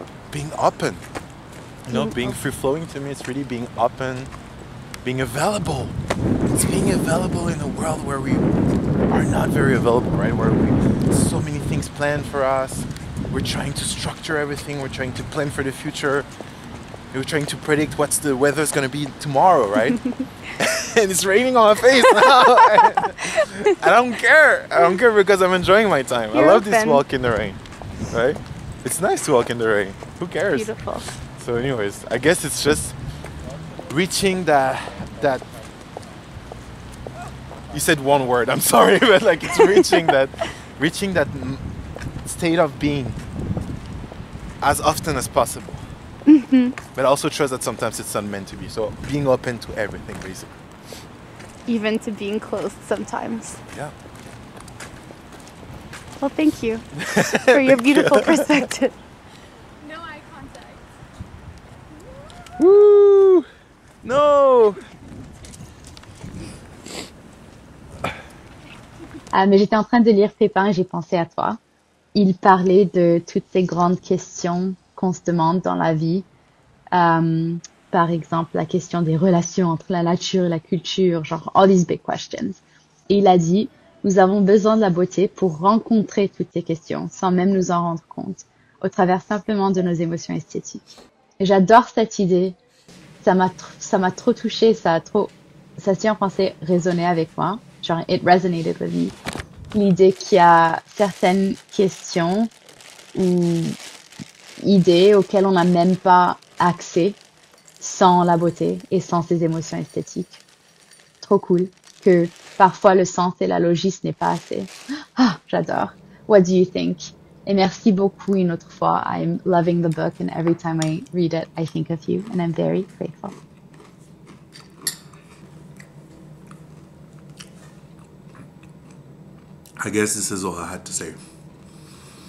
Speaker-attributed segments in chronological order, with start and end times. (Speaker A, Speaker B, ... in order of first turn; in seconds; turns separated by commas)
Speaker A: 0.3-1.0, Speaker A: 1.9-4.3, Speaker B: 1.9-2.4, Speaker A: 5.0-6.0, Speaker A: 6.5-8.4, Speaker A: 9.1-16.3, Speaker A: 17.1-20.0, Speaker B: 20.0-20.2, Speaker A: 20.6-27.6, Speaker B: 22.0-23.0, Speaker B: 26.3-27.1, Speaker A: 28.1-30.7, Speaker B: 30.5-31.1, Speaker A: 31.4-32.9, Speaker A: 33.9-35.5, Speaker A: 37.7-41.6, Speaker B: 39.6-40.0, Speaker A: 42.2-43.2, Speaker A: 44.6-45.8, Speaker B: 46.3-46.8, Speaker A: 46.9-50.6, Speaker B: 51.6-53.6, Speaker B: 56.2-58.9, Speaker A: 57.0-58.6, Speaker B: 59.8-60.9, Speaker A: 62.6-63.5, Speaker A: 64.0-64.8, Speaker C: 69.3-71.6, Speaker C: 72.1-76.3, Speaker C: 76.9-82.6, Speaker C: 83.1-92.6, Speaker C: 93.2-99.1, Speaker C: 99.7-102.5, Speaker C: 103.1-103.8, Speaker C: 104.6-107.2, Speaker C: 107.8-110.4, Speaker C: 111.2-123.3, Speaker A: 129.8-131.2